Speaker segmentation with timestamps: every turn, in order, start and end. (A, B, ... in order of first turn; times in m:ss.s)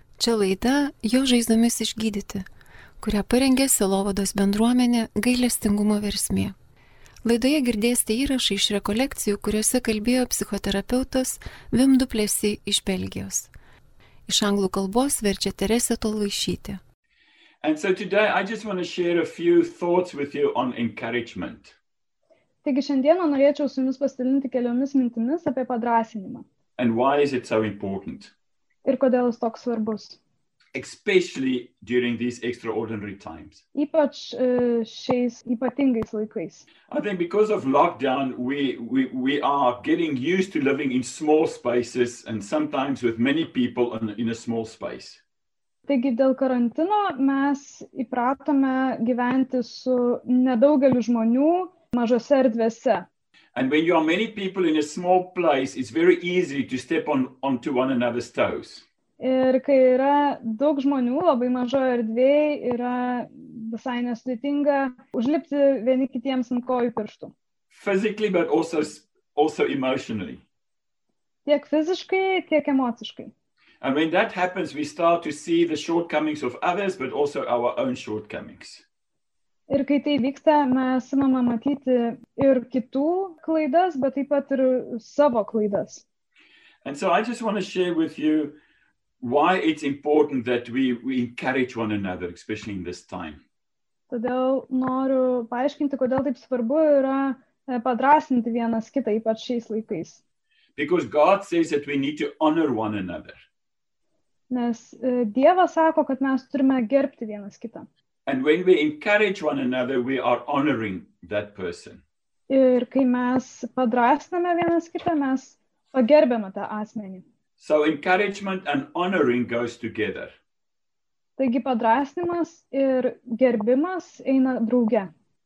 0:00.2-0:02.4 A
0:03.0-0:06.5 A
0:07.2-0:13.5 A
0:14.3-0:16.8 A
0:17.6-0:21.8 B
0:22.6-0:26.4 C
0:26.8-0:28.3 B
0:28.8-0:30.2 C
0:30.7-0:33.6 B
0:33.7-0:36.7 C
0:36.9-0:45.2 B
0:45.9-0:53.1 C
0:53.5-0:58.8 B
0:59.2-1:07.3 C
1:07.7-1:10.4 B
1:11.4-1:13.3 C
1:13.8-1:18.8 B
1:19.7-1:26.0 C
1:26.8-1:28.6 B
1:29.2-1:33.4 B
1:34.1-1:40.2 C
1:40.8-1:43.4 B
1:44.5-1:47.9 C
1:48.3-1:52.0 B
1:52.5-1:57.2 C
1:57.6-2:00.3 B
2:01.4-2:05.1 C